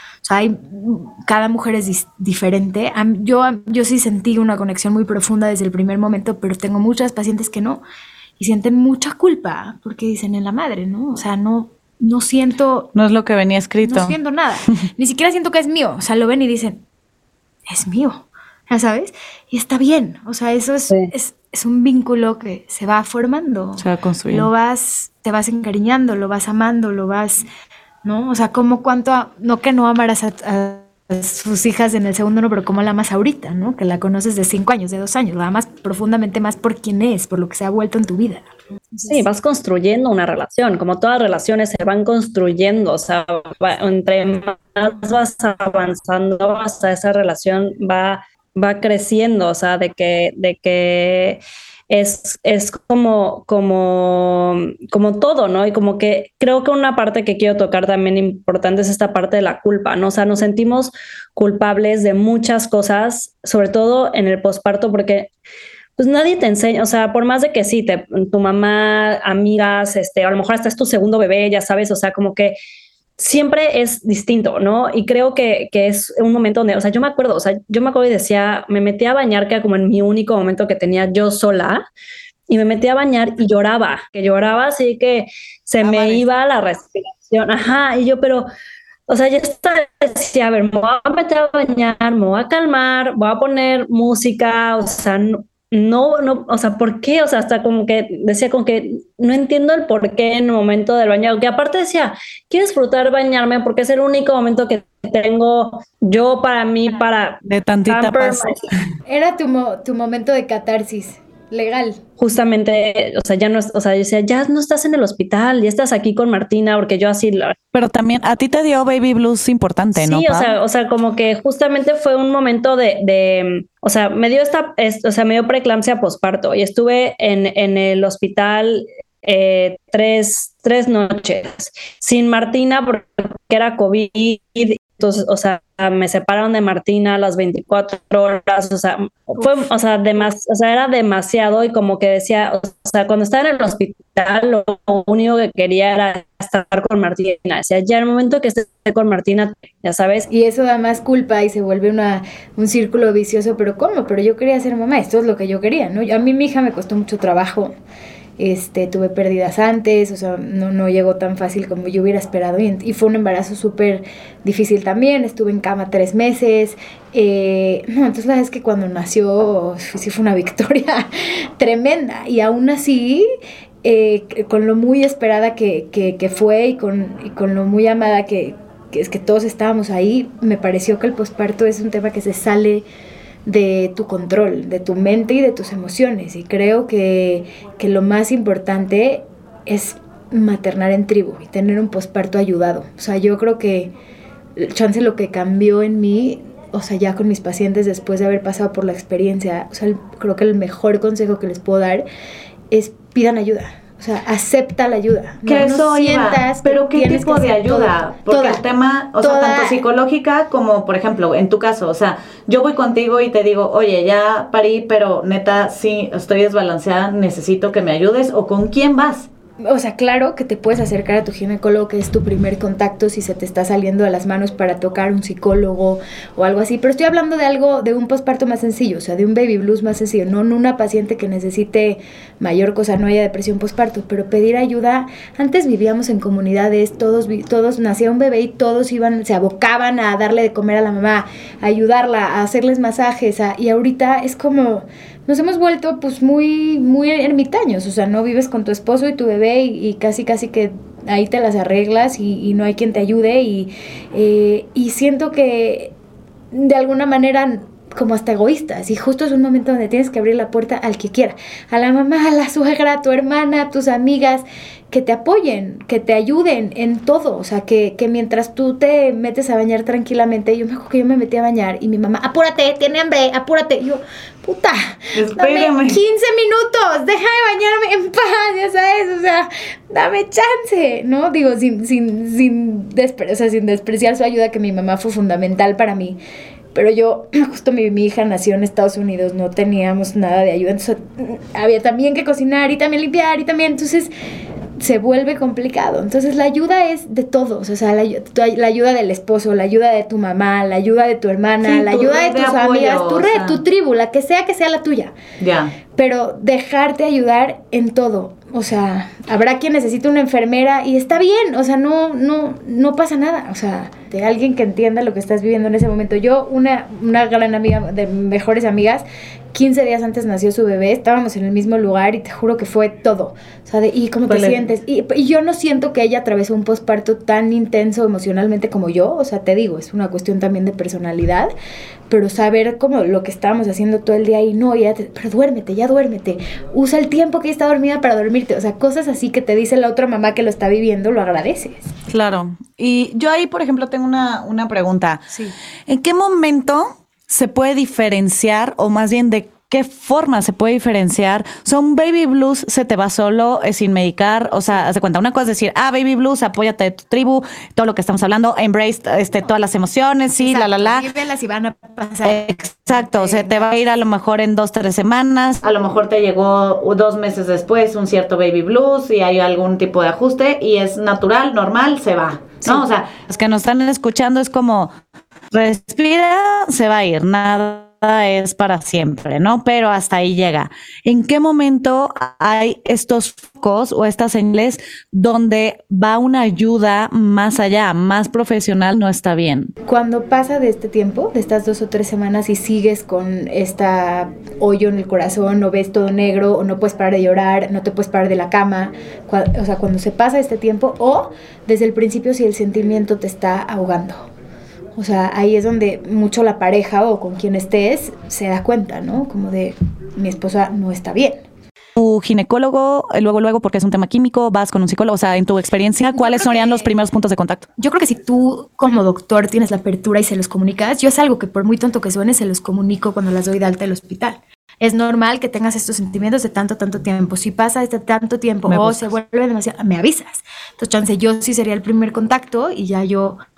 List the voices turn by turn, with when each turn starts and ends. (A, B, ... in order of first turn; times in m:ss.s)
0:00.2-0:07.8 A
0:08.4-0:12.9 A
0:12.9-0:14.2 B
0:13.8-0:16.8 A
0:17.7-0:27.4 A
0:23.8-0:24.5 B
0:28.0-0:39.2 A
0:39.0-1:05.3 C
1:06.0-1:12.6 C
1:13.2-1:21.8 C
1:22.5-1:28.5 C
1:25.8-1:26.2 B
1:29.1-1:48.6 C
1:47.4-1:48.6 B
1:49.0-1:52.0 A
1:52.2-1:57.5 C
1:57.7-2:00.5 B
2:00.0-2:30.3 C
2:30.3-2:37.7 A
2:38.4-2:53.3 A
2:53.8-3:02.8 A
3:03.4-3:13.9 A
3:14.6-3:22.0 A
3:22.7-3:28.6 A
3:25.4-3:39.3 B
3:29.2-3:29.8 A
3:39.6-4:15.9 A
4:16.5-4:46.2 A
4:35.1-4:36.0 B
4:46.7-4:54.1 A
4:54.8-5:05.1 A
5:01.6-5:03.6 B
5:05.4-5:05.7 B
5:05.9-5:31.5 A
5:24.3-5:24.7 B
5:32.1-5:41.9 A
5:42.1-5:45.2 B
5:45.3-5:45.5 A
5:45.9-6:01.0 B
6:00.4-6:03.7 A
6:02.2-6:14.9 B
6:15.5-6:29.7 B
6:29.8-6:44.3 A
6:45.0-6:51.4 A
6:52.0-6:57.7 B
6:56.1-6:56.9 A
6:57.8-7:13.4 A
7:08.7-7:09.1 B